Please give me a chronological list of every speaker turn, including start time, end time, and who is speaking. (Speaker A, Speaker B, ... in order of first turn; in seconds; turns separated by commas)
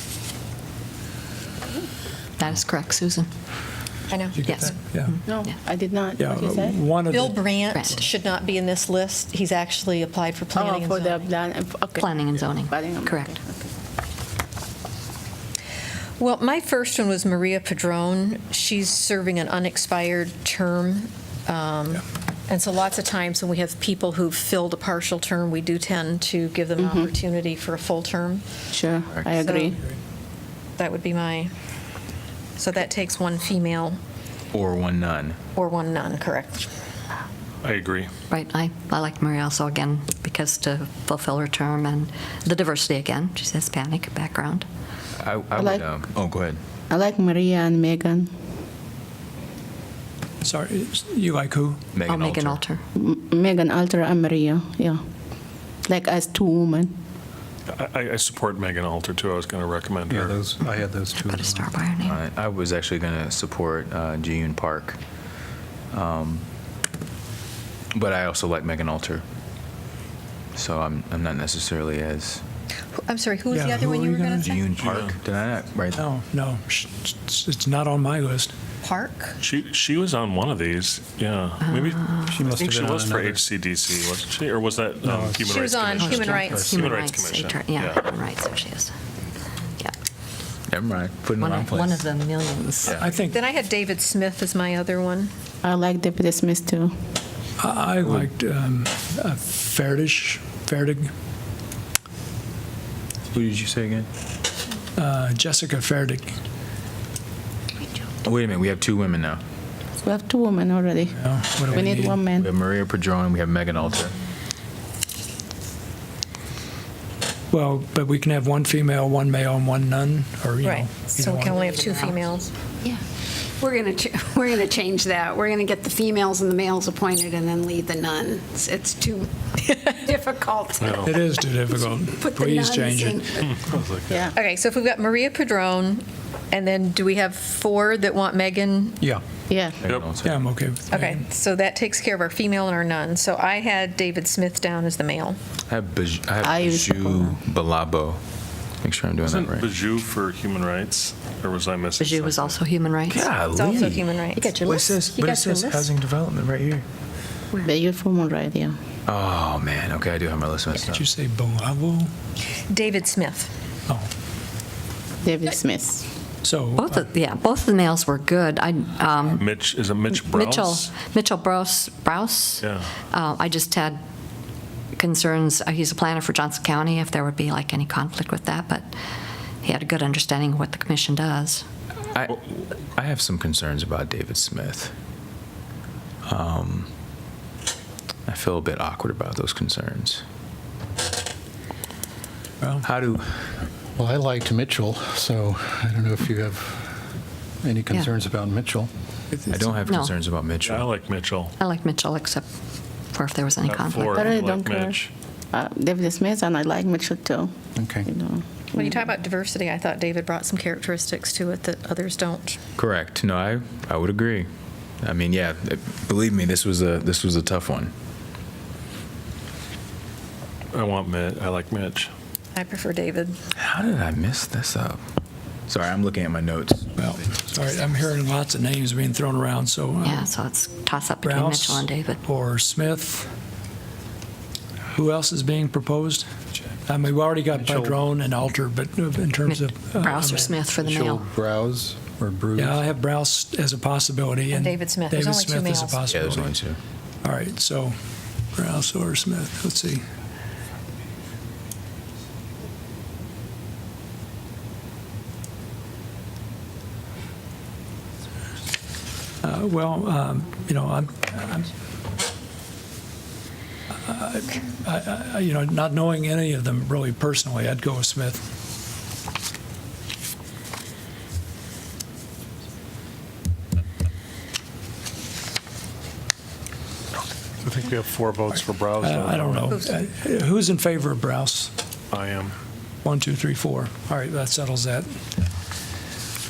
Speaker A: 2.4-3.3, Speaker B: 4.1-4.4, Speaker C: 4.3-5.2, Speaker A: 4.4-5.6, Speaker D: 5.2-6.8, Speaker C: 6.2-7.5, Speaker B: 7.1-11.3, Speaker A: 7.7-8.0, Speaker D: 10.5-13.6, Speaker A: 12.0-13.3, Speaker B: 16.2-28.4, Speaker D: 26.8-27.1, Speaker D: 28.7-29.8, Speaker B: 29.4-29.7, Speaker B: 30.8-31.5, Speaker B: 32.6-34.0, Speaker E: 34.5-35.4, Speaker B: 35.5-36.7, Speaker F: 37.6-38.1, Speaker A: 38.3-44.6, Speaker E: 45.2-46.6, Speaker D: 45.5-45.8, Speaker D: 46.9-48.3, Speaker C: 50.4-51.8, Speaker E: 51.9-52.6, Speaker A: 52.0-52.8, Speaker D: 52.9-55.0, Speaker D: 55.9-57.0, Speaker F: 57.7-60.5, Speaker G: 60.1-61.7, Speaker A: 60.6-62.2, Speaker E: 62.0-65.0, Speaker E: 65.9-66.5, Speaker E: 67.9-69.2, Speaker E: 70.5-72.4, Speaker B: 73.0-74.6, Speaker C: 73.5-74.5, Speaker E: 74.4-76.0, Speaker F: 74.8-75.2, Speaker C: 76.0-78.5, Speaker B: 78.8-79.4, Speaker F: 79.4-88.0, Speaker A: 81.6-82.4, Speaker G: 82.3-83.5, Speaker G: 85.0-85.5, Speaker B: 85.5-86.7, Speaker A: 86.0-88.9, Speaker G: 86.4-86.8, Speaker E: 90.7-92.1, Speaker A: 91.4-93.0, Speaker C: 93.0-93.4, Speaker B: 93.1-95.3, Speaker D: 95.6-96.9, Speaker C: 97.6-101.1, Speaker E: 103.3-104.1, Speaker C: 105.0-106.3, Speaker E: 108.2-109.4, Speaker D: 110.0-112.5, Speaker C: 111.1-112.2, Speaker E: 112.4-114.1, Speaker C: 117.5-121.6, Speaker B: 120.6-122.5, Speaker H: 123.6-133.5, Speaker C: 131.0-133.5, Speaker F: 133.5-134.3, Speaker B: 134.3-139.0, Speaker D: 139.5-139.8, Speaker E: 139.8-140.4, Speaker F: 139.8-140.1, Speaker C: 140.2-141.2, Speaker B: 140.9-145.4, Speaker E: 145.7-148.2, Speaker D: 146.4-147.4, Speaker E: 148.8-149.7, Speaker F: 149.2-152.6, Speaker A: 152.0-153.3, Speaker E: 153.1-156.8, Speaker B: 153.5-154.5, Speaker A: 154.3-155.8, Speaker D: 157.6-158.8, Speaker E: 159.1-161.0, Speaker C: 160.9-162.1, Speaker B: 162.7-163.5, Speaker D: 165.2-166.0, Speaker C: 166.4-167.1, Speaker A: 166.8-169.5, Speaker F: 169.3-170.9, Speaker A: 170.1-174.0, Speaker F: 172.6-172.9, Speaker A: 174.9-178.9, Speaker A: 179.6-181.6, Speaker E: 182.1-184.9, Speaker E: 186.2-186.9, Speaker E: 188.3-190.2, Speaker E: 192.8-193.6, Speaker G: 194.0-196.9, Speaker G: 197.6-198.9, Speaker E: 199.5-200.9, Speaker A: 199.9-200.2, Speaker F: 200.6-201.5, Speaker A: 201.6-202.4, Speaker A: 203.1-204.3, Speaker F: 203.6-205.1, Speaker D: 204.1-205.0, Speaker D: 205.5-208.4, Speaker G: 207.8-208.1, Speaker B: 208.7-212.6, Speaker E: 212.8-214.5, Speaker E: 215.0-217.9, Speaker F: 220.7-222.1, Speaker B: 222.5-223.3, Speaker E: 223.5-225.0, Speaker E: 225.7-227.4, Speaker C: 227.0-230.3, Speaker A: 230.0-232.2, Speaker C: 231.2-233.3, Speaker C: 234.9-236.3, Speaker C: 236.9-240.6, Speaker G: 237.5-238.0, Speaker A: 239.4-241.2, Speaker G: 240.8-242.8, Speaker C: 242.5-246.5, Speaker B: 244.5-246.4, Speaker E: 246.1-246.8, Speaker C: 247.2-247.9, Speaker C: 248.5-250.0, Speaker C: 259.4-261.7, Speaker C: 264.0-268.4, Speaker F: 277.6-279.8, Speaker C: 279.0-281.7, Speaker B: 279.7-279.9, Speaker F: 282.1-282.5, Speaker C: 283.0-285.1